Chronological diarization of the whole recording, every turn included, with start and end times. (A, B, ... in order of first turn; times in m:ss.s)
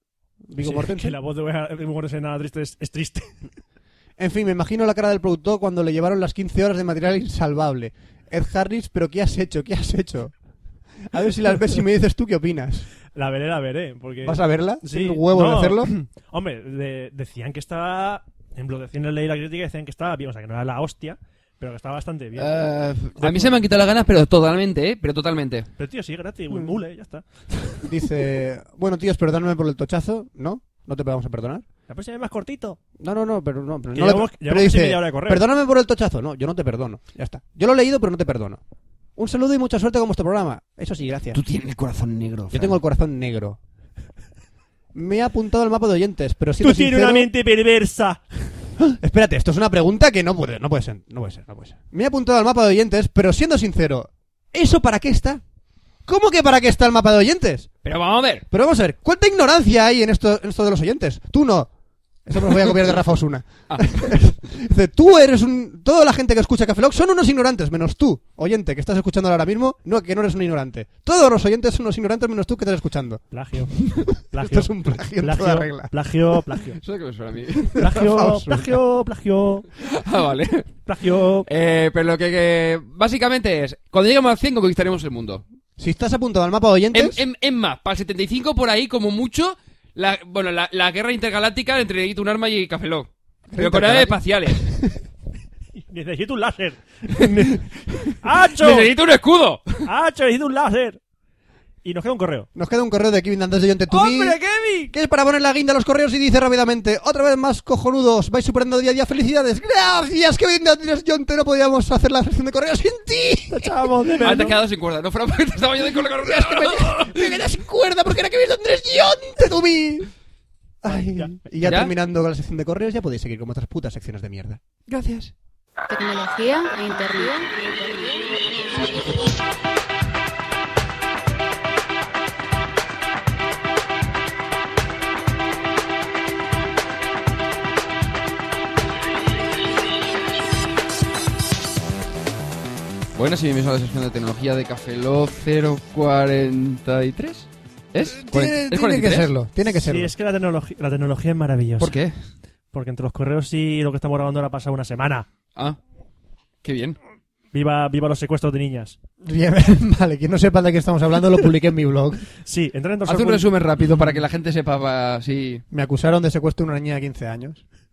0:00.5-0:01.2 A
0:00.6-0:03.4 B
0:04.2-0:10.3 A
0:11.0-0:12.9 A
0:13.1-0:22.5 B
0:14.2-0:15.9 A
0:22.4-0:25.7 C
0:23.2-0:23.6 B
0:25.8-0:27.9 B
0:27.8-0:31.6 A
0:31.9-0:32.8 B
0:33.0-0:38.6 A
0:33.9-0:35.4 B
0:39.2-0:41.4 A
0:41.3-0:42.8 C
0:42.5-0:43.6 A
0:44.9-0:47.3 A
0:46.6-0:48.4 B
0:48.8-0:55.4 A
0:56.0-0:57.7 A
0:57.8-0:58.4 C
0:58.5-1:01.7 A
1:02.2-1:13.2 A
1:03.7-1:04.0 C
1:13.3-1:16.8 B
1:13.8-1:15.9 A
1:16.8-1:17.8 C
1:17.7-1:18.8 A
1:17.8-1:19.7 B
1:19.8-1:20.8 C
1:20.8-1:21.5 B
1:21.5-1:25.4 C
1:25.8-1:27.2 A
1:26.9-1:34.6 C
1:33.5-1:34.9 A
1:35.8-1:37.6 B
1:38.0-1:39.8 C
1:38.2-1:38.9 B
1:39.8-1:41.0 B
1:41.8-1:42.5 B
1:42.5-1:44.4 A
1:43.9-1:44.9 B
1:44.9-1:54.2 A
1:53.5-1:54.5 B
1:54.2-1:57.4 C
1:56.2-2:00.1 A
2:00.8-2:04.6 A
2:00.9-2:01.4 B
2:01.6-2:01.9 C
2:04.9-2:05.3 C
2:05.9-2:08.5 D
2:23.1-2:29.3 C
2:28.1-2:30.1 A
2:29.8-2:31.9 B
2:31.8-2:32.1 C
2:32.7-2:35.3 B
2:36.6-2:37.0 C
2:37.5-2:39.0 B
2:39.2-2:42.2 A
2:42.4-2:43.5 B
2:43.0-2:45.6 C
2:45.7-2:47.6 A